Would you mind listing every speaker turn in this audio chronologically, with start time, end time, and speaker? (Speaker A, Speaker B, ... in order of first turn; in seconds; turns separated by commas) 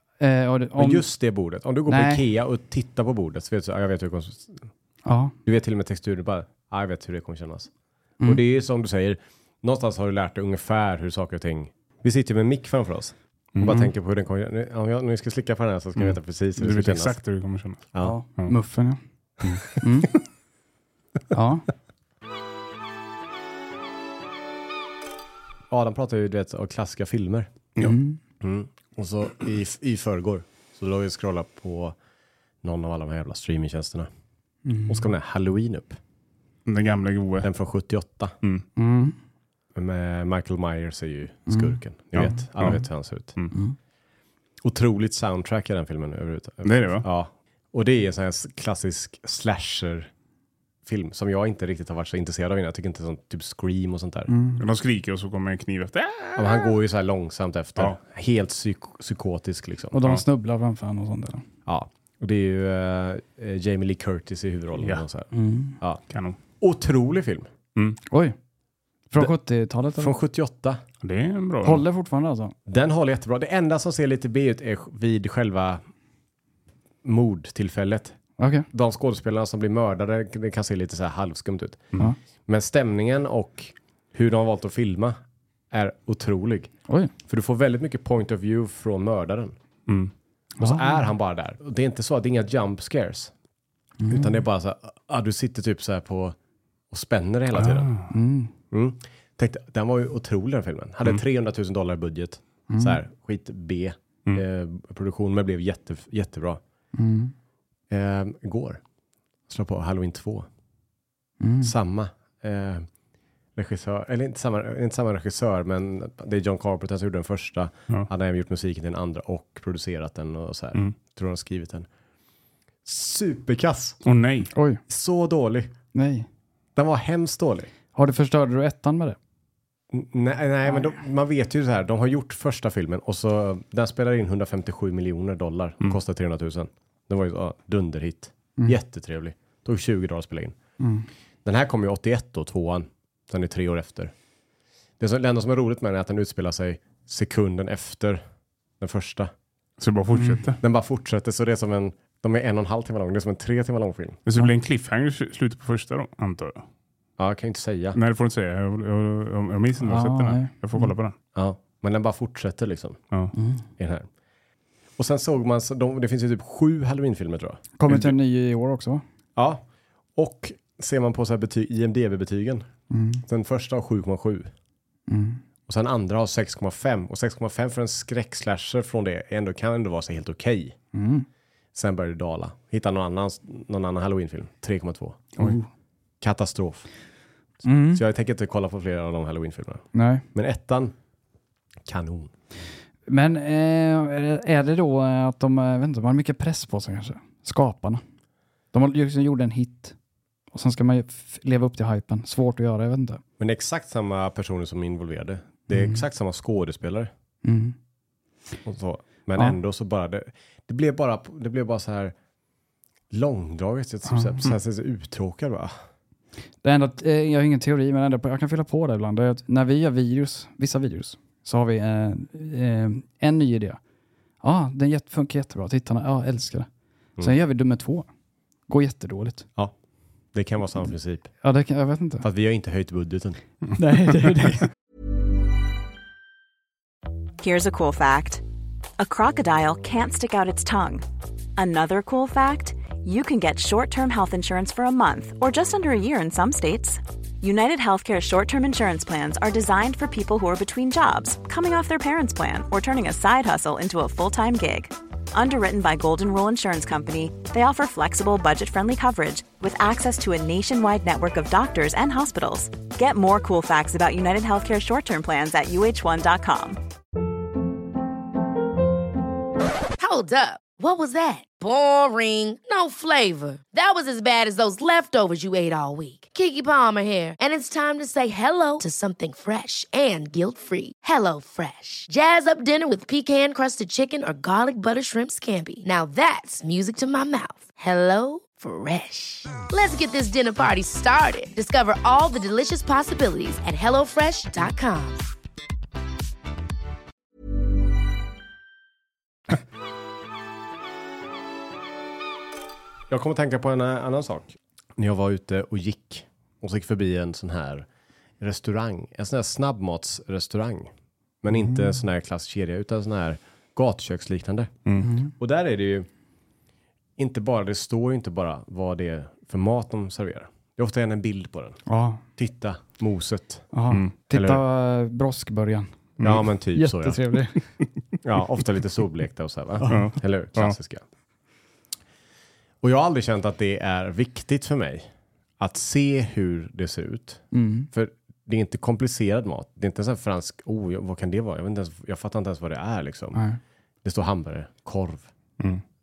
Speaker A: 0.2-1.1, Speaker B: 0.8-4.7, Speaker A: 1.9-2.2, Speaker A: 5.0-5.3, Speaker B: 5.5-7.7, Speaker B: 8.2-17.2, Speaker C: 13.6-13.9, Speaker C: 16.0-18.6, Speaker A: 18.0-19.0, Speaker C: 19.4-20.2, Speaker A: 19.8-20.1, Speaker A: 21.3-21.6, Speaker B: 25.7-27.5, Speaker A: 27.8-28.2, Speaker B: 28.4-32.0, Speaker B: 32.6-34.1, Speaker A: 34.7-35.1, Speaker B: 34.9-36.0, Speaker C: 36.7-37.5, Speaker B: 37.4-38.4, Speaker A: 38.8-39.2, Speaker B: 39.7-43.4, Speaker A: 41.5-42.4, Speaker C: 42.2-42.8, Speaker B: 44.6-50.1, Speaker C: 46.6-47.0, Speaker B: 50.9-54.3, Speaker A: 54.3-54.6, Speaker C: 54.6-56.7, Speaker B: 56.4-60.0, Speaker A: 59.9-61.4, Speaker B: 61.7-66.0, Speaker C: 64.8-65.0, Speaker A: 65.3-65.8, Speaker C: 66.1-66.4, Speaker B: 66.6-67.5, Speaker A: 68.1-68.4, Speaker A: 69.1-70.1, Speaker B: 70.0-70.8, Speaker C: 71.0-71.8, Speaker A: 71.6-72.5, Speaker B: 72.7-75.8, Speaker B: 77.0-78.2, Speaker A: 78.4-78.7, Speaker B: 78.7-81.9, Speaker B: 82.5-85.2, Speaker B: 85.7-86.7, Speaker B: 87.3-89.6, Speaker C: 89.9-90.1, Speaker A: 90.6-91.1, Speaker B: 90.6-93.3, Speaker A: 94.0-94.4, Speaker B: 94.1-96.4, Speaker B: 96.9-97.9, Speaker C: 97.6-98.1, Speaker A: 98.1-98.5, Speaker B: 98.7-106.6, Speaker A: 102.7-103.0, Speaker A: 106.9-107.3, Speaker B: 107.9-108.8, Speaker B: 109.5-110.5, Speaker A: 111.4-111.7, Speaker B: 111.6-112.9, Speaker B: 113.6-121.9, Speaker B: 122.8-124.0, Speaker C: 124.0-124.5, Speaker A: 124.5-124.8, Speaker B: 124.9-125.7, Speaker A: 125.9-126.3, Speaker B: 126.8-127.7, Speaker A: 128.0-129.2, Speaker B: 129.9-140.6, Speaker A: 140.8-141.1, Speaker B: 141.4-144.1, Speaker B: 145.0-148.2, Speaker B: 148.8-149.3, Speaker C: 149.8-150.6, Speaker A: 150.1-150.4, Speaker B: 150.6-154.2, Speaker C: 154.3-156.7, Speaker B: 157.2-158.0, Speaker C: 157.9-161.2, Speaker A: 159.8-160.9, Speaker B: 161.3-163.0, Speaker A: 163.3-163.6, Speaker B: 163.8-164.1, Speaker B: 165.0-167.6, Speaker A: 167.8-169.0, Speaker C: 167.9-168.2, Speaker B: 169.4-169.6, Speaker B: 170.2-172.7, Speaker A: 172.9-173.2, Speaker B: 173.3-174.5, Speaker A: 175.1-175.4, Speaker B: 175.7-180.8, Speaker A: 180.9-181.3, Speaker B: 181.7-185.4, Speaker A: 185.4-185.7, Speaker B: 186.2-186.9, Speaker A: 187.6-188.0, Speaker B: 187.9-190.9, Speaker A: 189.9-190.2, Speaker B: 191.9-192.3, Speaker A: 193.1-198.0, Speaker A: 198.7-199.9, Speaker A: 200.5-203.2, Speaker B: 203.4-207.1, Speaker A: 205.7-206.0, Speaker A: 207.4-207.8, Speaker B: 208.7-212.1, Speaker B: 213.1-215.7, Speaker A: 214.1-214.4, Speaker A: 216.6-223.8, Speaker A: 224.4-226.7, Speaker A: 227.2-228.1, Speaker A: 228.7-229.5, Speaker B: 230.3-231.3, Speaker A: 231.4-232.2, Speaker B: 232.2-233.4, Speaker A: 233.8-234.7, Speaker D: 237.4-238.4, Speaker D: 239.0-241.1, Speaker D: 241.6-266.8, Speaker E: 270.0-295.2, Speaker B: 303.1-307.9, Speaker B: 308.4-310.9, Speaker B: 311.4-314.7, Speaker A: 311.5-311.9, Speaker A: 315.0-315.3, Speaker B: 315.4-316.1, Speaker B: 317.2-321.8, Speaker A: 321.9-322.2, Speaker B: 322.4-323.7, Speaker A: 323.7-325.9, Speaker B: 324.3-324.6, Speaker C: 326.2-326.4, Speaker B: 326.2-327.2, Speaker A: 326.7-327.6, Speaker B: 328.2-331.0, Speaker A: 329.8-330.1, Speaker C: 329.9-330.8, Speaker B: 332.8-343.4, Speaker A: 337.5-337.9, Speaker A: 343.3-343.6, Speaker B: 344.0-345.3